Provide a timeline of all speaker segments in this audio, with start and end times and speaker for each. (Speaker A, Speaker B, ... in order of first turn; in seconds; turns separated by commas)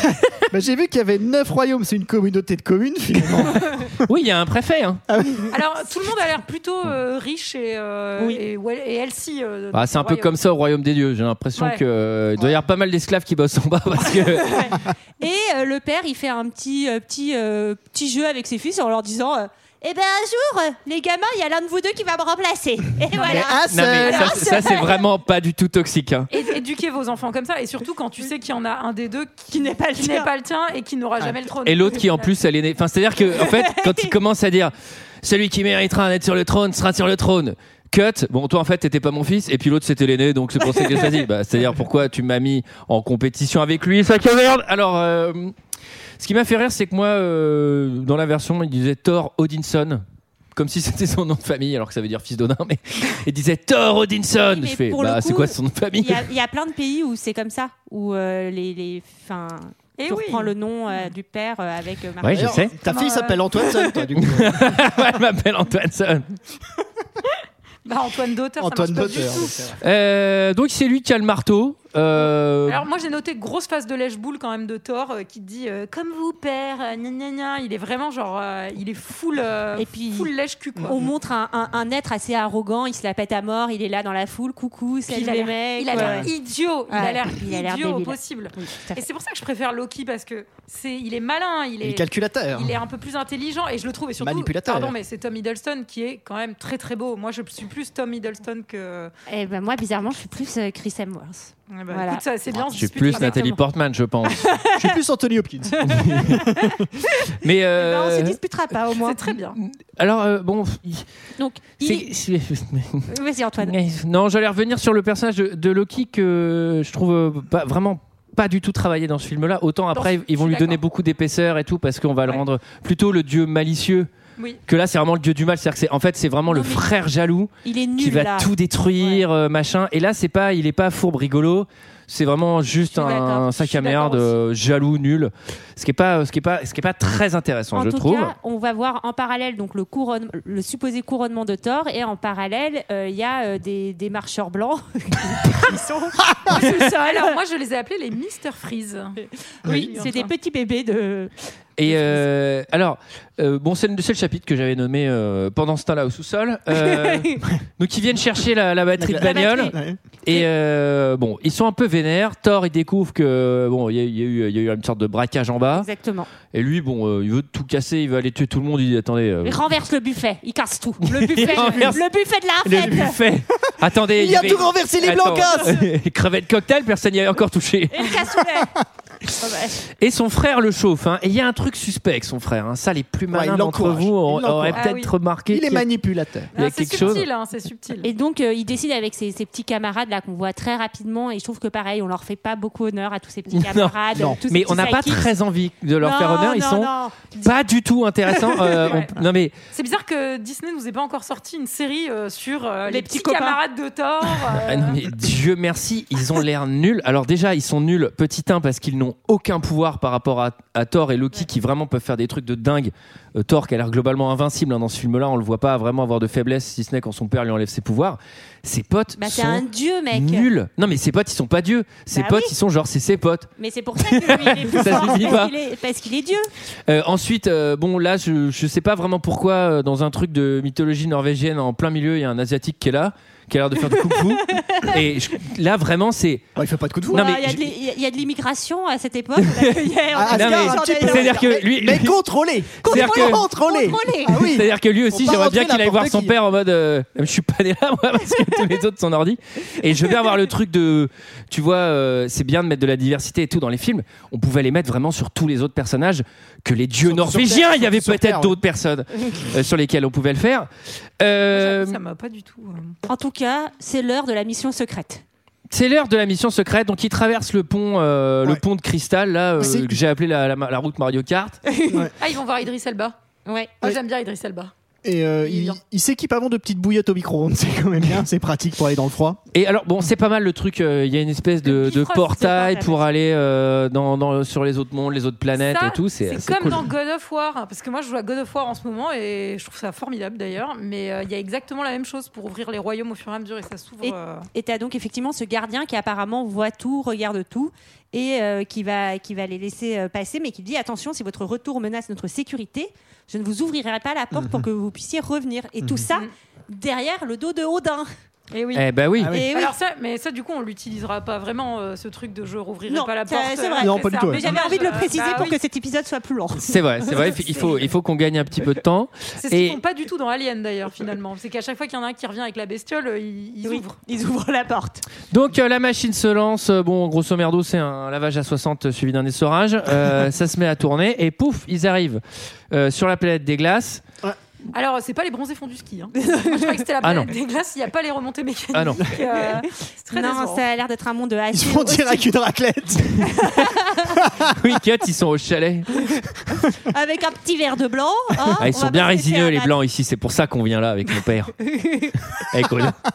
Speaker A: 0.5-4.0, Speaker B: 3.5-5.0, Speaker A: 5.1-5.6, Speaker C: 5.5-10.3, Speaker B: 9.7-14.6, Speaker C: 11.6-11.8, Speaker D: 14.4-25.0, Speaker C: 23.1-23.4, Speaker A: 23.2-24.5, Speaker B: 23.7-26.3, Speaker C: 26.3-32.3, Speaker D: 29.5-30.3, Speaker B: 31.6-45.5, Speaker D: 33.3-34.1, Speaker B: 46.2-50.0, Speaker B: 50.5-56.3, Speaker D: 54.5-62.6, Speaker C: 60.0-61.1, Speaker B: 62.2-62.7, Speaker A: 62.3-65.0, Speaker C: 62.9-64.0, Speaker B: 64.2-66.3, Speaker C: 67.8-69.8, Speaker A: 68.6-69.8, Speaker B: 69.8-72.8, Speaker C: 72.7-81.0, Speaker D: 79.8-80.3, Speaker D: 80.9-86.3, Speaker C: 85.1-99.1, Speaker A: 85.9-86.3, Speaker D: 86.9-89.0, Speaker A: 91.8-92.8, Speaker A: 94.2-94.9, Speaker D: 99.3-102.2, Speaker C: 101.7-103.6, Speaker B: 102.5-104.5, Speaker D: 103.1-103.5, Speaker D: 104.3-104.9, Speaker A: 104.6-106.9, Speaker B: 105.8-106.4, Speaker D: 106.0-106.8, Speaker D: 107.3-109.2, Speaker B: 107.4-108.4, Speaker C: 109.0-109.6, Speaker B: 109.6-111.1, Speaker D: 111.4-112.1, Speaker B: 111.8-124.1, Speaker D: 113.1-113.8, Speaker C: 119.9-120.8, Speaker C: 124.4-124.6, Speaker B: 124.7-138.3, Speaker D: 126.5-126.9, Speaker D: 127.6-129.2, Speaker D: 132.9-133.5, Speaker C: 133.6-134.3, Speaker D: 137.7-147.3, Speaker C: 146.5-150.3, Speaker D: 149.6-151.3, Speaker A: 149.7-149.9, Speaker B: 151.8-165.9, Speaker D: 151.8-152.3, Speaker D: 156.7-157.4, Speaker A: 159.0-160.0, Speaker D: 159.2-159.8, Speaker D: 165.8-166.3, Speaker B: 166.5-169.6, Speaker D: 169.4-173.2, Speaker B: 171.0-172.1, Speaker A: 171.4-172.0, Speaker B: 172.6-178.1, Speaker A: 172.8-173.2, Speaker A: 173.7-175.8, Speaker D: 177.9-179.8, Speaker B: 180.0-185.9, Speaker A: 183.3-184.9, Speaker C: 184.8-185.1, Speaker A: 185.5-186.5, Speaker B: 186.5-187.3, Speaker C: 186.6-188.1, Speaker D: 188.0-195.3, Speaker B: 193.5-194.0, Speaker A: 194.1-194.4, Speaker B: 194.5-199.5, Speaker D: 196.0-197.3, Speaker C: 199.7-205.0, Speaker D: 202.9-203.6, Speaker B: 204.6-225.5, Speaker D: 219.2-220.5, Speaker D: 222.1-222.6, Speaker D: 223.6-226.5, Speaker B: 226.9-236.5, Speaker D: 234.2-235.0, Speaker A: 236.6-237.4, Speaker B: 237.1-237.7, Speaker D: 237.1-241.4, Speaker B: 239.4-242.2, Speaker A: 240.1-246.4, Speaker B: 242.8-243.4, Speaker D: 242.8-244.5, Speaker B: 244.3-260.7, Speaker A: 257.0-258.6, Speaker B: 261.2-262.0, Speaker C: 261.5-263.0, Speaker D: 263.1-265.2, Speaker B: 265.7-271.6, Speaker A: 269.6-269.9, Speaker D: 271.7-272.1, Speaker A: 271.9-272.1, Speaker C: 272.2-273.2, Speaker D: 273.5-273.8, Speaker C: 273.8-274.7, Speaker A: 275.0-279.4, Speaker C: 275.5-275.8, Speaker B: 279.5-286.8, Speaker C: 281.7-282.4, Speaker D: 282.4-283.0, Speaker C: 285.6-294.5, Speaker D: 294.0-308.1, Speaker A: 304.3-304.7, Speaker A: 305.8-306.1, Speaker C: 308.5-308.9, Speaker B: 308.8-309.3, Speaker A: 309.2-309.5, Speaker D: 309.3-309.7, Speaker C: 309.5-315.6, Speaker D: 312.9-316.8, Speaker A: 313.8-314.6, Speaker B: 316.6-319.8, Speaker C: 317.2-317.9, Speaker C: 319.4-324.0, Speaker D: 323.6-325.1, Speaker B: 325.3-334.0, Speaker C: 334.7-340.6, Speaker B: 337.0-337.3, Speaker B: 338.7-339.1, Speaker D: 339.3-342.3, Speaker A: 341.5-343.4, Speaker D: 343.4-344.2, Speaker A: 344.2-344.5, Speaker B: 344.5-346.2, Speaker D: 346.7-349.7, Speaker B: 348.6-351.6, Speaker D: 351.6-352.4, Speaker B: 352.3-353.0